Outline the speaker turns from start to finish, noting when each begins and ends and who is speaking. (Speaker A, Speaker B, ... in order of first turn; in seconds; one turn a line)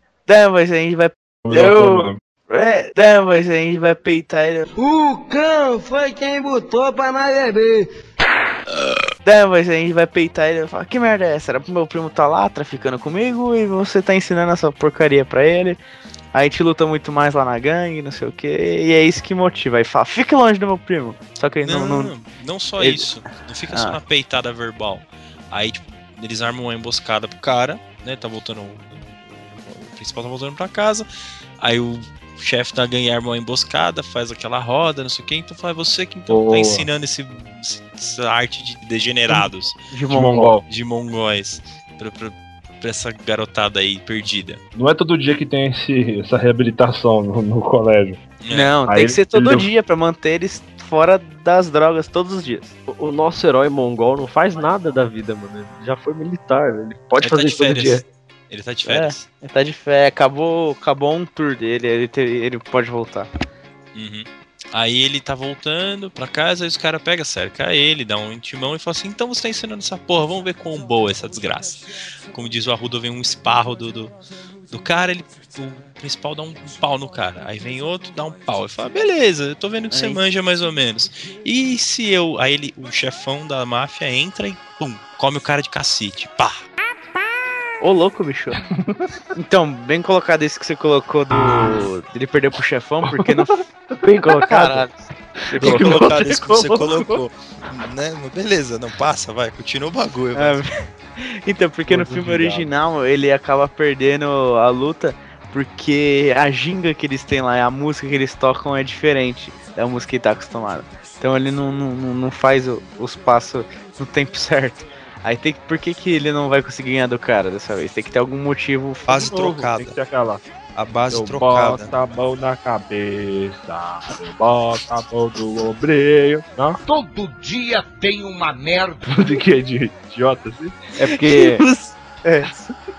Speaker A: 0.3-4.7
Speaker B: 1.4-2.2
Speaker C: 4.8-7.9
Speaker A: 9.2-15.8
Speaker A: 16.3-22.1
Speaker D: 21.6-31.1
Speaker A: 22.8-23.1
Speaker A: 23.7-24.0
Speaker D: 31.6-39.8
Speaker B: 36.3-36.9
Speaker A: 39.9-40.5
Speaker B: 40.1-40.6
Speaker D: 40.7-44.6
Speaker B: 44.8-48.2
Speaker D: 48.4-48.8
Speaker A: 48.5-52.7
Speaker B: 48.9-49.7
Speaker E: 52.9-58.0
Speaker D: 57.2-59.3
Speaker A: 58.9-63.3
Speaker D: 64.0-74.2
Speaker D: 74.7-86.6
Speaker A: 79.9-80.2
Speaker A: 87.8-88.6
Speaker A: 89.3-93.7
Speaker B: 93.0-93.4
Speaker E: 94.0-94.9
Speaker A: 94.5-95.1
Speaker E: 95.5-96.2
Speaker B: 95.5-96.1
Speaker D: 95.6-100.6
Speaker A: 95.6-97.0
Speaker A: 100.3-119.4
Speaker B: 101.9-102.7
Speaker D: 119.1-120.0
Speaker B: 119.2-120.4
Speaker D: 120.8-121.9
Speaker B: 121.1-126.8
Speaker C: 126.9-129.1
Speaker B: 129.1-130.8
Speaker E: 131.0-131.7
Speaker A: 131.1-132.7